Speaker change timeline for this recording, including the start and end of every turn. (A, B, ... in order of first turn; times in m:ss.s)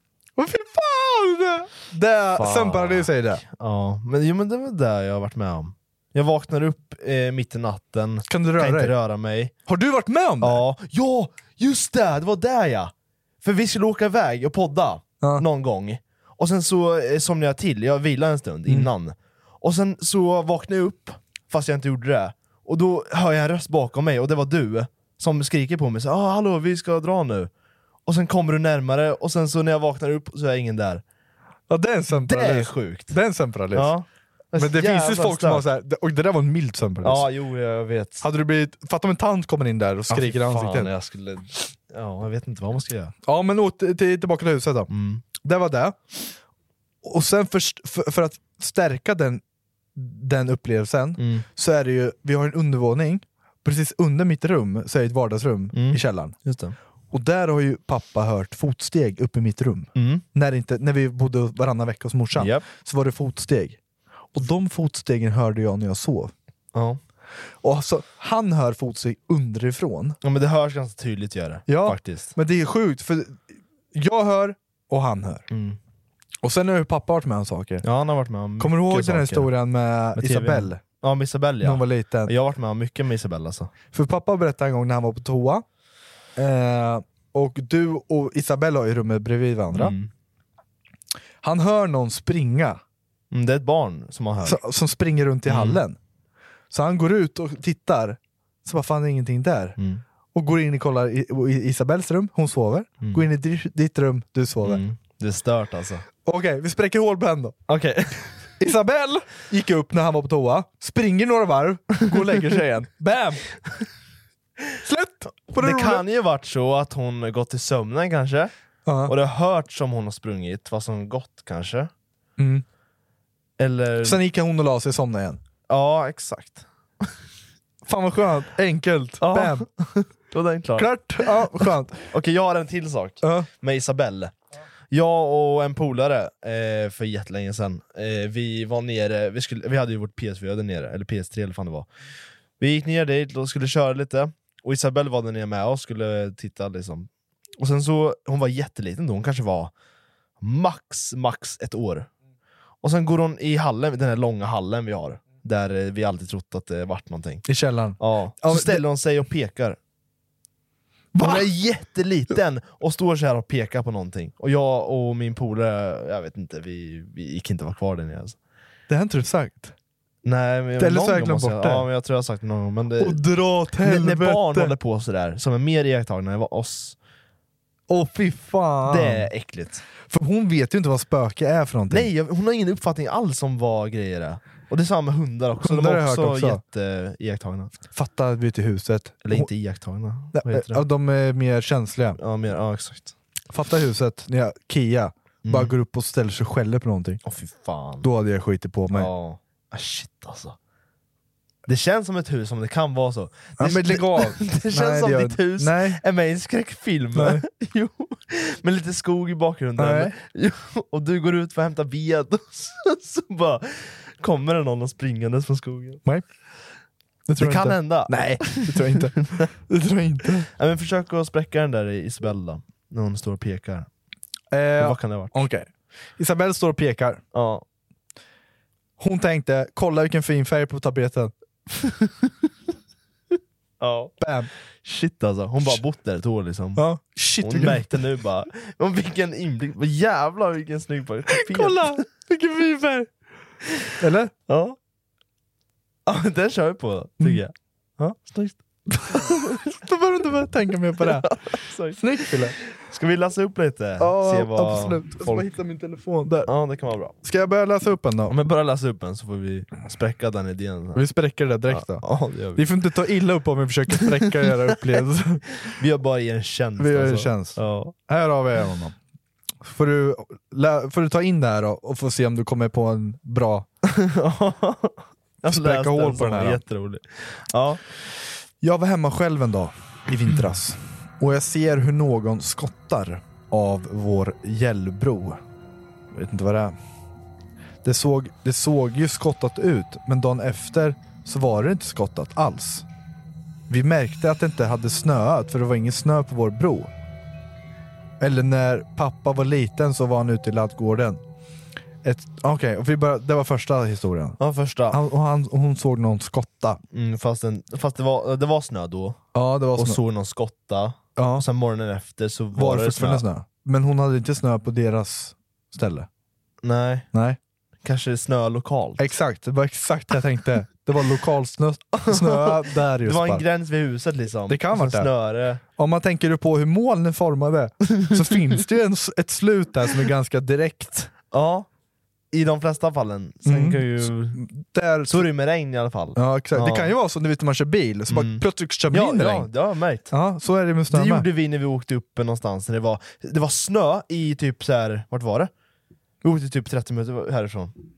0:00.4-0:03.4 A
0:02.4-0:09.5 B
0:08.3-0:08.9 A
0:09.7-0:10.6 A
0:10.4-0:27.5 B
0:28.1-0:31.0 B
0:31.7-0:33.9 A
0:32.1-0:33.2 B
0:33.7-0:35.6 B
0:34.6-0:37.3 A
0:37.0-0:38.2 B
0:38.2-0:40.9 A
0:40.1-0:43.1 B
0:43.3-0:46.0 A
0:44.9-0:45.2 B
0:47.0-0:49.4 A
0:50.0-0:56.4 A
0:51.2-0:51.4 B
0:55.7-0:56.8 B
0:57.1-1:03.8 A
1:00.0-1:00.2 B
1:02.4-1:02.7 B
1:04.3-1:06.3 A
1:06.7-1:07.0 B
1:07.6-1:10.2 A
1:10.2-1:12.3 B
1:11.7-1:15.5 A
1:15.5-1:15.8 B
1:16.4-1:17.8 A
1:17.8-1:19.5 B
1:18.6-1:20.8 A
1:20.2-1:23.7 B
1:21.6-1:22.3 A
1:23.9-1:25.6 A
1:26.4-1:30.0 A
1:29.7-1:30.1 B
1:31.4-1:32.8 A
1:33.3-1:34.6 B
1:34.4-1:36.0 A
1:35.5-1:35.8 B
1:36.7-1:39.8 A
1:39.8-1:40.0 B
1:40.3-1:44.8 A
1:44.6-1:46.1 B
1:46.2-1:47.6 A
1:47.7-1:48.3 B
1:48.6-1:53.4 A
1:54.8-1:56.0 A
1:55.6-1:58.5 B
1:58.9-1:59.1 A
1:59.1-2:01.9 B
2:02.4-2:02.6 A
2:03.6-2:04.2 B
2:04.0-2:05.4 A
2:05.7-2:06.6 B
2:07.8-2:09.7 A
2:09.2-2:14.3 B
2:10.8-2:12.1 A
2:13.2-2:13.5 A
2:14.9-2:21.9 B
2:22.6-2:29.7 B
2:30.4-2:32.1 B
2:32.8-2:37.5 B
2:37.5-2:38.8 A
2:38.0-2:39.8 B
2:41.1-2:41.5 A
2:41.2-2:48.4 B
2:48.9-2:49.7 A
2:50.2-2:53.2 B
2:50.8-2:51.9 A
2:53.0-2:54.8 A
2:53.8-2:57.0 B
2:57.9-2:59.3 A
2:58.9-2:59.8 B
3:00.1-3:02.1 A
3:01.9-3:07.7 B
3:05.6-3:06.6 A
3:07.9-3:09.5 A
3:09.2-3:10.8 B
3:10.3-3:12.2 A
3:12.2-3:13.2 B
3:13.5-3:17.2 A
3:15.4-3:15.7 B
3:17.2-3:18.1 B
3:18.0-3:19.1 A
3:18.9-3:20.6 B
3:21.7-3:36.0 B
3:23.6-3:26.0 A
3:27.2-3:27.4 A
3:29.8-3:30.1 A
3:37.3-3:40.5 A
3:37.4-3:39.5 B
3:40.4-3:43.9 B
3:44.5-3:47.2 A
3:44.8-3:45.4 B
3:47.3-3:47.6 B
3:49.0-3:51.3 A
3:51.8-3:52.1 B
3:53.8-3:54.1 B
3:54.2-3:54.5 A
3:54.8-3:56.8 B
3:56.8-3:58.0 A
3:57.4-4:02.0 B
4:01.3-4:03.1 A
4:04.0-4:04.3 A
4:04.5-4:04.8 B
4:06.1-4:09.6 B
4:09.1-4:11.4 A
4:11.0-4:15.5 B
4:12.0-4:12.6 A
4:14.0-4:16.5 A
4:16.5-4:17.2 B
4:17.2-4:18.4 A
4:18.3-4:21.0 B
4:21.0-4:22.0 A
4:21.7-4:22.6 B
4:22.6-4:25.6 A
4:25.7-4:27.9 B
4:26.8-4:29.0 A
4:29.6-4:33.7 A
4:33.8-4:37.8 B
4:35.5-4:36.6 A
4:38.6-4:45.4 A
4:46.1-4:46.8 A
4:47.8-4:52.8 A
4:53.7-4:56.9 A
4:58.2-5:01.2 A
5:02.0-5:06.8 A
5:04.4-5:05.0 B
5:06.9-5:09.2 B
5:09.3-5:10.0 A
5:09.8-5:13.2 B
5:11.2-5:11.4 A
5:12.5-5:16.1 A
5:16.6-5:17.1 B
5:17.1-5:17.4 A
5:17.8-5:19.1 B
5:19.0-5:23.4 A
5:22.0-5:25.6 B
5:24.5-5:25.1 A
5:25.7-5:31.1 A
5:31.3-5:31.7 B
5:32.3-5:34.4 B
5:33.5-5:35.3 A
5:35.1-5:36.9 B
5:36.2-5:39.5 A
5:38.1-5:40.1 B
5:40.1-5:41.3 A
5:40.9-5:45.5 B
5:46.2-5:47.8 B